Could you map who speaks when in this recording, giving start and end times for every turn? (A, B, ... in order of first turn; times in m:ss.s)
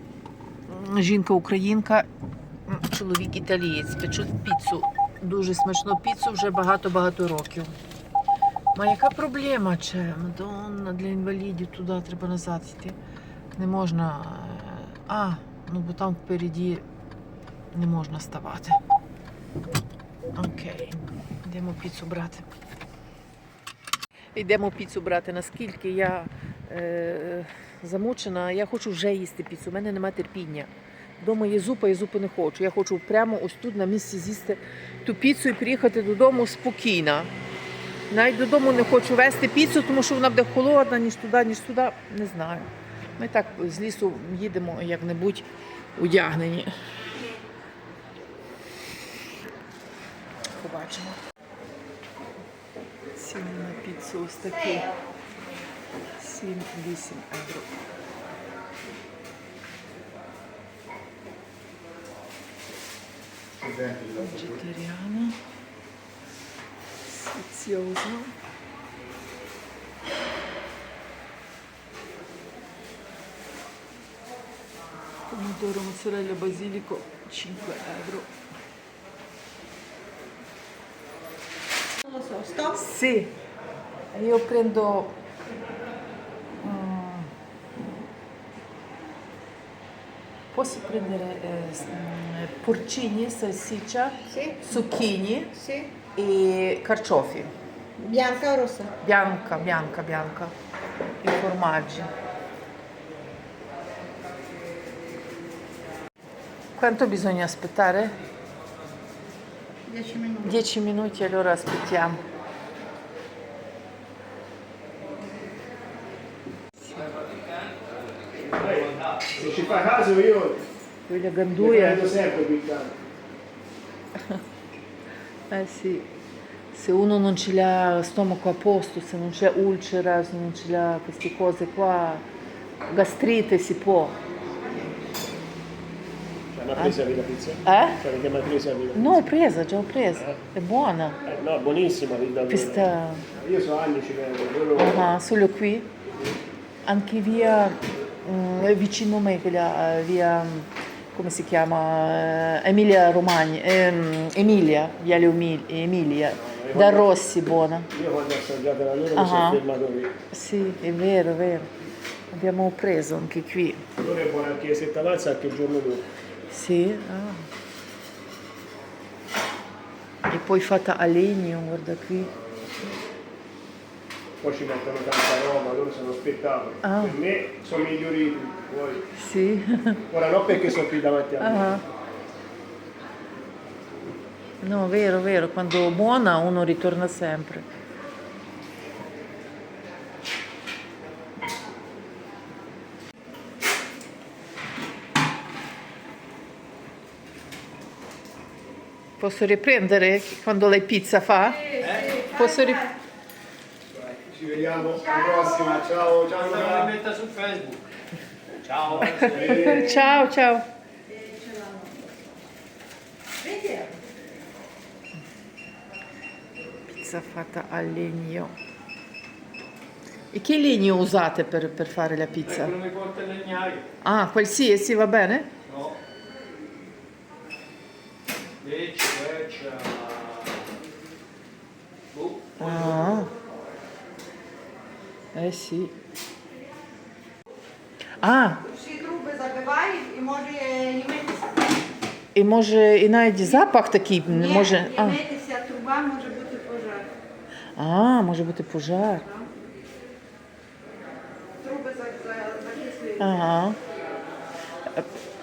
0:00.7-0:02.1 A
0:02.7-0:07.7 A
0:08.8-0:13.0 A
0:13.6-0:16.8 A
0:17.7-0:18.8 A
0:20.4-0:22.4 A
0:24.3-0:37.3 A
0:38.1-0:46.7 A
0:50.6-0:51.2 A
0:53.2-0:54.9 A
0:56.2-0:57.8 A
1:04.0-1:05.4 A
1:07.1-1:08.4 A
1:15.3-1:18.3 A
1:22.0-1:22.7 B
1:22.7-1:23.3 A
1:24.1-1:25.1 A
1:26.6-1:27.3 A
1:30.5-1:35.6 A
1:34.3-1:34.6 B
1:35.6-1:35.9 B
1:36.1-1:37.5 A
1:38.0-1:38.9 B
1:39.0-1:40.5 A
1:41.2-1:42.1 A
1:46.8-1:48.1 A
1:49.9-1:50.4 B
1:50.4-1:52.2 A
1:58.5-2:00.7 C
2:01.1-2:02.1 A
2:01.6-2:03.0 C
2:05.5-2:06.1 A
2:06.7-2:12.2 A
2:12.9-2:14.2 A
2:16.5-2:19.2 C
2:17.6-2:18.0 A
2:19.0-2:21.2 A
2:21.3-2:25.0 C
2:22.5-2:23.3 A
2:24.8-2:25.9 A
2:26.8-2:37.9 A
2:36.5-2:37.2 C
2:37.9-2:40.1 C
2:39.2-2:39.6 A
2:40.3-2:41.7 A
2:42.3-2:43.8 A
2:44.0-2:46.1 C
2:46.5-2:47.4 A
2:50.3-2:52.3 A
2:54.4-2:59.1 C
2:56.8-2:57.2 A
2:59.2-3:00.0 A
3:00.1-3:01.8 C
3:01.4-3:01.8 A
3:04.6-3:07.7 A
3:19.2-3:22.9 A
3:24.1-3:27.0 C
3:25.1-3:25.7 B
3:26.8-3:27.8 D
3:28.6-3:29.4 D
3:29.0-3:30.7 A
3:29.3-3:29.9 C
3:31.1-3:32.0 B
3:33.4-3:33.9 B
3:36.9-3:38.5 A
3:40.3-3:42.8 A
3:42.7-3:43.8 D
3:44.0-3:45.5 A
3:48.6-3:50.5 D
3:52.1-3:52.6 D
3:52.6-3:53.3 A
3:55.3-3:56.0 A
3:58.2-3:58.7 A
3:58.7-4:01.5 B
4:02.4-4:05.3 A
4:04.6-4:07.1 B
4:07.8-4:09.3 A
4:11.6-4:13.2 B
4:13.2-4:13.8 A